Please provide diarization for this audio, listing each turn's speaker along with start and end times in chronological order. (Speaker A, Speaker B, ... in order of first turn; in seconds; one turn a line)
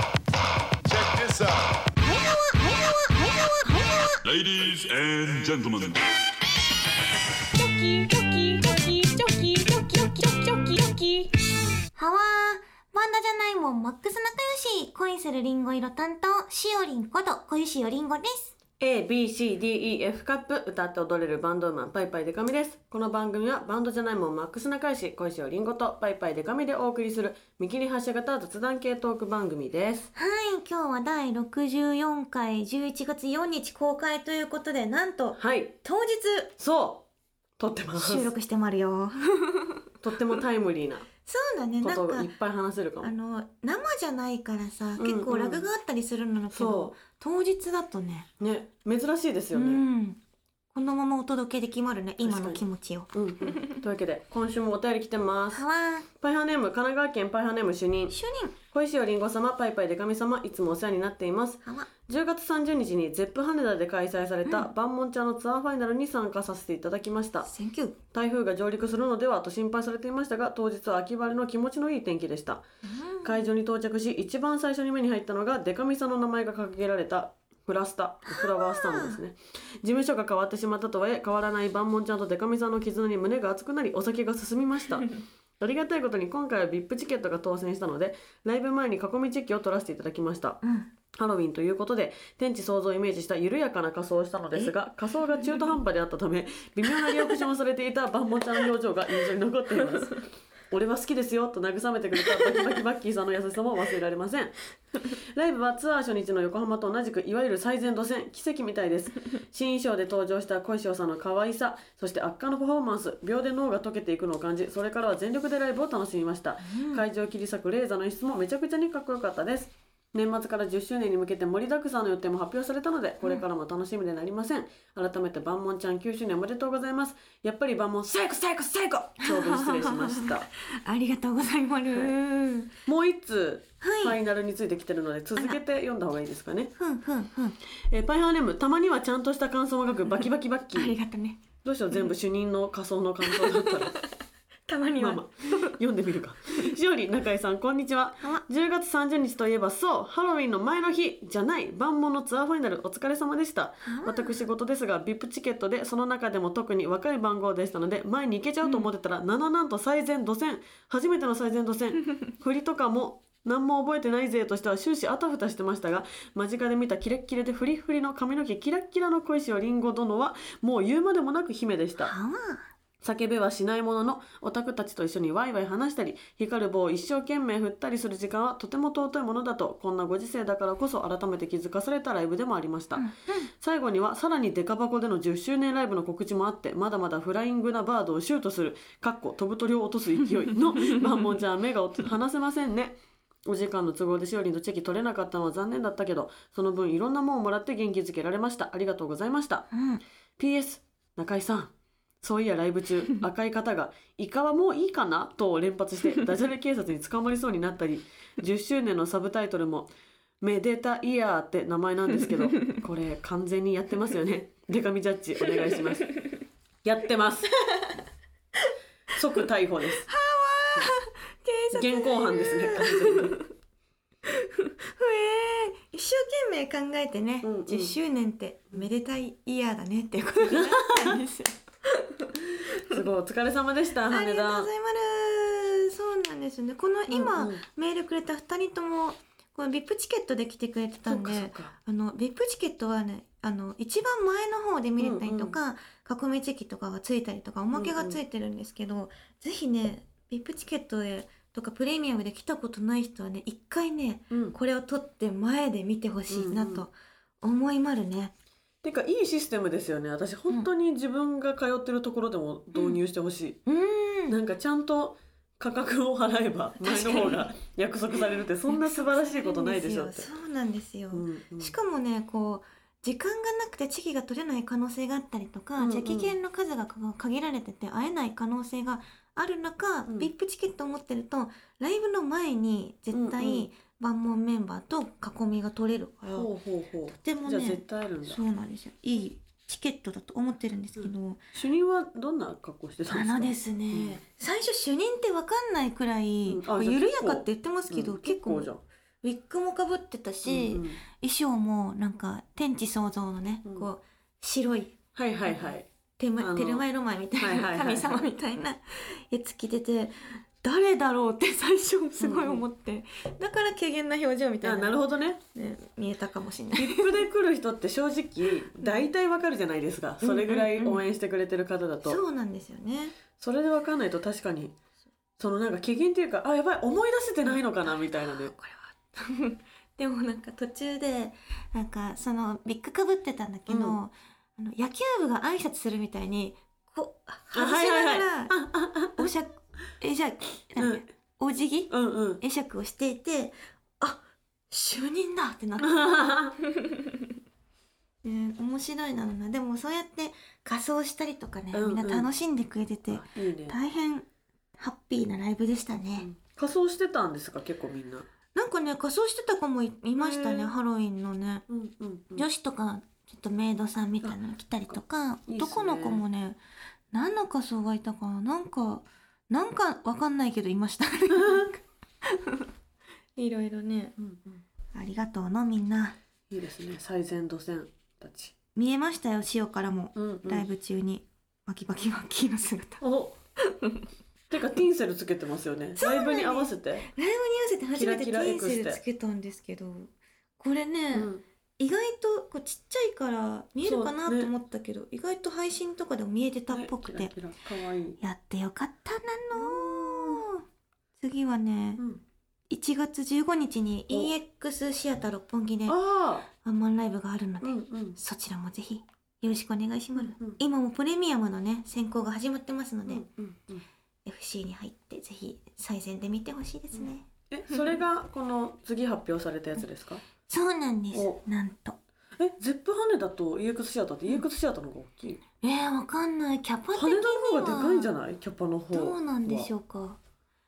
Speaker A: 0.9-1.6
Speaker B: 2.0-4.2
Speaker A: 4.2-6.1
Speaker C: 7.5-11.3
Speaker B: 11.9-18.6
Speaker C: 18.8-30.1
Speaker B: 30.1-36.5
Speaker C: 35.4-35.8
Speaker C: 36.6-37.1
Speaker C: 37.6-38.3
Speaker B: 38.0-39.8
Speaker C: 40.0-41.1
Speaker B: 41.2-42.3
Speaker C: 41.8-43.1
Speaker B: 43.0-48.3
Speaker C: 45.0-45.7
Speaker C: 46.5-47.0
Speaker C: 48.4-49.8
Speaker B: 49.5-50.2
Speaker B: 50.7-53.8
Speaker C: 52.2-55.6
Speaker B: 55.5-56.1
Speaker C: 56.2-58.1
Speaker B: 58.1-58.6
Speaker C: 58.7-67.5
Speaker B: 61.6-61.9
Speaker B: 67.4-68.0
Speaker C: 68.1-72.6
Speaker B: 72.8-73.5
Speaker C: 73.2-85.1
Speaker B: 78.3-79.2
Speaker C: 85.6-90.6
Speaker B: 90.6-90.9
Speaker C: 91.1-104.5
Speaker C: 105.1-130.5
Speaker B: 116.6-117.0
Speaker B: 129.2-132.7
Speaker C: 132.9-136.7
Speaker B: 133.8-134.2
Speaker B: 136.8-137.6
Speaker C: 137.9-140.9
Speaker B: 140.8-141.4
Speaker C: 141.6-144.0
Speaker B: 143.2-144.1
Speaker B: 144.7-145.8
Speaker C: 145.0-172.1
Speaker B: 153.8-154.4
Speaker B: 172.0-172.7
Speaker C: 173.0-183.1
Speaker B: 183.0-183.5
Speaker C: 183.6-199.7
Speaker B: 199.7-200.0
Speaker C: 200.4-216.1
Speaker C: 216.8-217.5
Speaker B: 217.6-218.0
Speaker C: 219.1-220.1
Speaker B: 220.1-223.4
Speaker C: 221.7-223.4
Speaker B: 224.3-232.9
Speaker C: 227.4-228.0
Speaker C: 230.5-231.2
Speaker C: 232.7-234.7
Speaker B: 234.1-258.3
Speaker C: 237.1-237.6
Speaker C: 241.1-241.7
Speaker C: 245.0-245.6
Speaker C: 247.8-248.2
Speaker C: 256.3-256.9
Speaker C: 258.8-263.6
Speaker B: 263.7-264.3
Speaker C: 264.3-270.3
Speaker B: 266.8-267.5
Speaker B: 268.7-286.5
Speaker C: 271.1-271.8
Speaker C: 275.8-276.4
Speaker C: 283.1-283.7
Speaker C: 286.4-288.4
Speaker B: 287.1-291.4
Speaker C: 291.0-294.2
Speaker B: 293.1-298.7
Speaker C: 296.5-298.8
Speaker B: 299.2-315.0
Speaker C: 300.5-301.0
Speaker C: 305.1-305.9
Speaker C: 306.4-306.9
Speaker C: 307.4-308.2
Speaker C: 312.2-312.6
Speaker C: 314.6-315.4
Speaker B: 315.5-317.2
Speaker C: 316.8-322.2
Speaker B: 320.2-321.0
Speaker B: 322.0-323.2
Speaker C: 323.4-324.7
Speaker C: 325.4-328.5
Speaker B: 327.5-338.6
Speaker C: 333.7-334.0
Speaker C: 337.5-339.3
Speaker B: 339.2-346.1
Speaker C: 340.8-341.0
Speaker C: 341.9-342.4
Speaker C: 345.8-346.6
Speaker B: 346.6-347.1
Speaker B: 348.2-354.3
Speaker C: 351.7-352.3
Speaker C: 353.1-353.8
Speaker B: 354.8-356.3
Speaker C: 356.2-358.3
Speaker B: 358.6-361.6
Speaker C: 360.1-360.7
Speaker C: 361.7-362.5
Speaker B: 362.4-366.6
Speaker C: 364.2-366.2
Speaker B: 367.1-372.7
Speaker C: 371.4-371.7
Speaker B: 373.4-374.2
Speaker C: 374.2-374.6
Speaker B: 374.9-376.1
Speaker C: 376.5-378.6
Speaker B: 378.8-383.0
Speaker C: 380.2-380.6
Speaker C: 383.0-383.4
Speaker B: 383.7-384.1
Speaker C: 384.5-387.1
Speaker B: 386.0-397.3
Speaker C: 388.0-389.0
Speaker C: 391.1-391.4
Speaker C: 393.8-394.5
Speaker C: 396.7-398.2
Speaker B: 398.2-400.6
Speaker C: 399.6-400.5
Speaker B: 401.2-402.0
Speaker B: 402.7-406.0
Speaker C: 405.9-406.5
Speaker B: 406.6-413.2
Speaker C: 407.6-408.2
Speaker C: 410.2-410.6
Speaker C: 413.1-413.9
Speaker B: 414.2-417.9
Speaker C: 416.9-420.2
Speaker B: 420.5-422.0
Speaker C: 421.1-421.4
Speaker C: 422.4-425.4
Speaker B: 425.6-428.1
Speaker C: 426.9-429.7
Speaker B: 428.9-430.2